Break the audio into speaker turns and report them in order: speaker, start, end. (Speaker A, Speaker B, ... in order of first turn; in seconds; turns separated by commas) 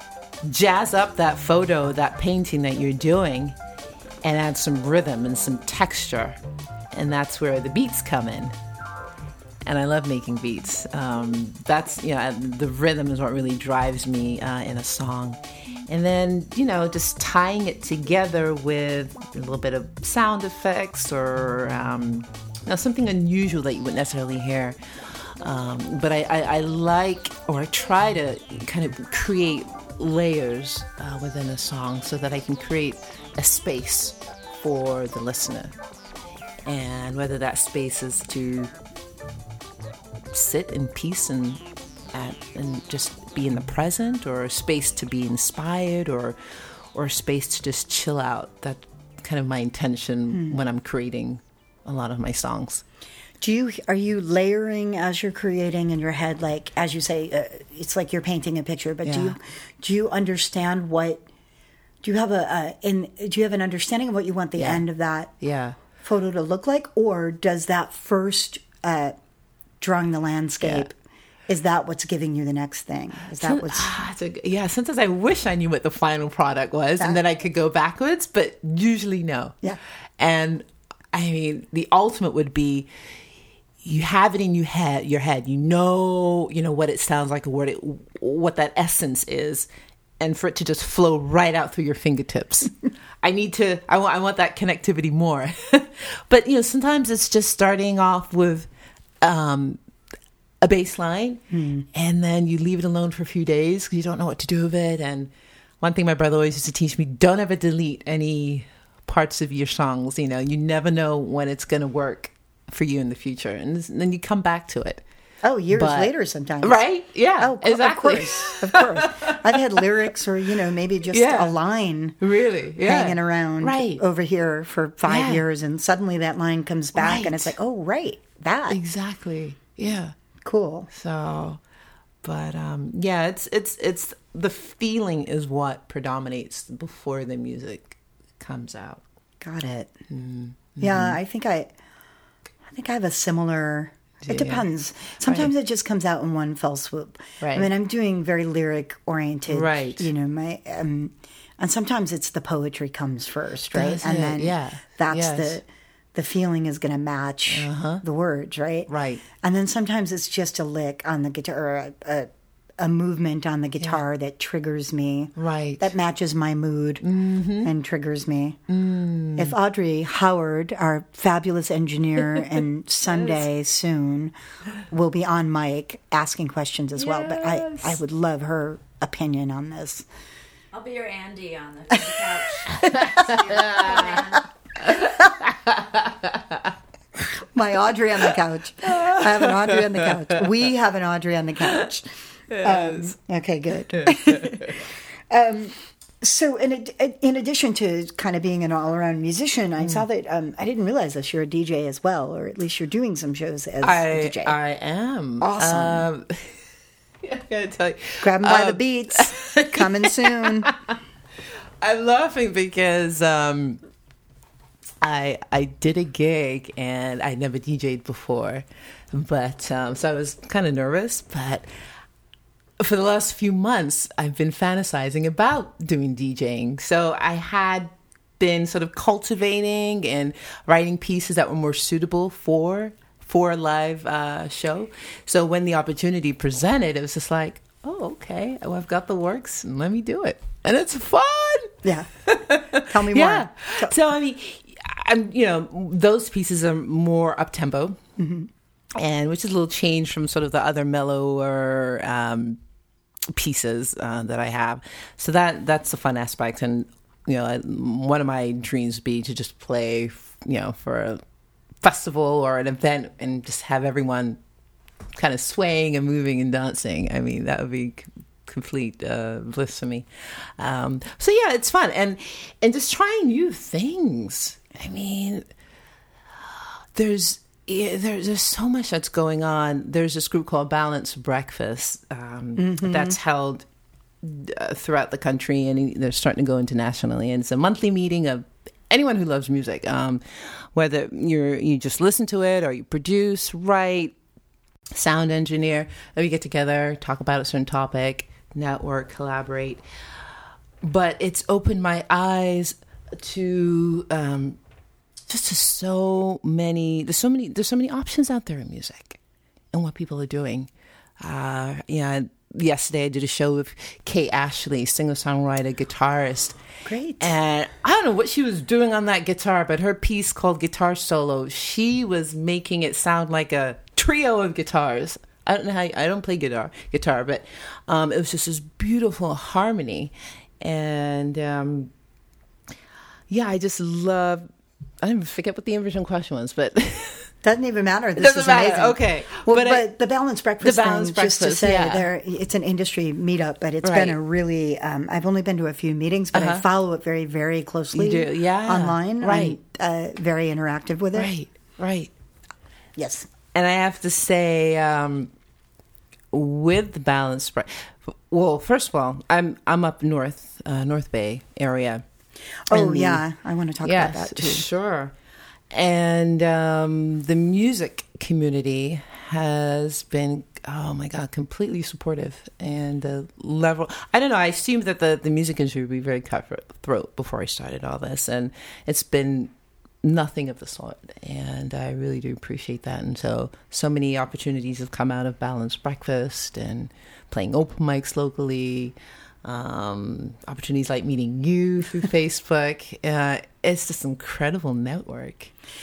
Speaker A: 0.4-3.5, Speaker A: 4.2-6.4, Speaker A: 6.9-8.6, Speaker A: 9.7-24.8, Speaker A: 25.4-35.8, Speaker A: 36.6-38.7, Speaker A: 40.3-46.4, Speaker A: 46.9-52.8, Speaker B: 50.3-50.6, Speaker B: 53.4-61.3, Speaker A: 59.0-59.4, Speaker B: 62.0-65.3, Speaker A: 64.6-64.8, Speaker A: 65.4-65.8, Speaker B: 66.0-69.2, Speaker B: 69.8-71.0, Speaker A: 70.6-70.9, Speaker B: 71.5-73.9, Speaker A: 73.4-79.6, Speaker A: 80.2-82.9, Speaker A: 83.8-98.7, Speaker A: 99.2-99.8, Speaker A: 100.6-115.0, Speaker B: 101.5-101.9, Speaker B: 115.4-116.8, Speaker A: 115.7-116.1, Speaker A: 116.6-119.8, Speaker B: 117.4-122.2, Speaker A: 121.1-121.5, Speaker A: 122.2-124.0, Speaker B: 122.8-128.8, Speaker A: 125.0-125.4, Speaker A: 127.0-127.5, Speaker A: 128.7-130.2, Speaker B: 130.4-130.9, Speaker A: 130.9-131.6, Speaker A: 132.2-139.0, Speaker B: 139.4-139.9, Speaker A: 140.1-141.2, Speaker B: 140.8-141.7, Speaker B: 142.7-158.9, Speaker A: 144.3-144.7, Speaker A: 145.2-145.5, Speaker A: 147.4-147.7, Speaker A: 149.5-150.1, Speaker A: 153.7-155.6, Speaker A: 157.5-158.0, Speaker A: 158.9-159.2, Speaker B: 159.4-167.1, Speaker A: 165.4-165.9, Speaker A: 167.0-167.7, Speaker B: 167.6-168.6, Speaker A: 168.7-169.6, Speaker B: 169.3-174.3, Speaker A: 172.4-173.4, Speaker B: 174.9-180.1, Speaker A: 177.0-178.0, Speaker C: 180.7-184.5, Speaker B: 182.7-183.8, Speaker A: 182.8-184.1, Speaker A: 184.8-186.7, Speaker B: 187.4-204.6, Speaker A: 188.8-190.5, Speaker A: 192.5-193.1, Speaker A: 193.9-194.7, Speaker A: 203.8-206.6, Speaker B: 205.4-206.1, Speaker A: 207.2-210.9, Speaker B: 208.2-210.7, Speaker A: 211.8-213.8, Speaker A: 215.0-221.7, Speaker A: 222.8-248.0, Speaker B: 241.8-242.1, Speaker B: 242.8-243.9, Speaker B: 248.2-248.5, Speaker A: 249.0-252.6, Speaker A: 253.3-261.2, Speaker A: 261.8-264.4, Speaker A: 265.1-275.5, Speaker A: 276.4-283.6, Speaker B: 282.6-283.2, Speaker A: 284.2-294.1, Speaker A: 294.9-299.8, Speaker A: 300.8-304.6, Speaker A: 305.3-309.2, Speaker A: 309.7-316.6, Speaker B: 316.9-317.3, Speaker A: 317.2-331.9, Speaker A: 333.3-334.5, Speaker A: 335.0-337.3, Speaker B: 337.4-351.3, Speaker A: 338.2-339.9, Speaker A: 340.6-342.1, Speaker A: 343.8-344.2, Speaker A: 346.3-346.6, Speaker A: 347.9-349.6, Speaker A: 351.1-352.1, Speaker B: 353.0-353.3, Speaker A: 353.5-355.3, Speaker A: 356.3-362.0, Speaker B: 362.7-364.7, Speaker A: 362.7-363.2, Speaker A: 363.8-365.1, Speaker A: 365.7-379.5, Speaker A: 380.0-395.5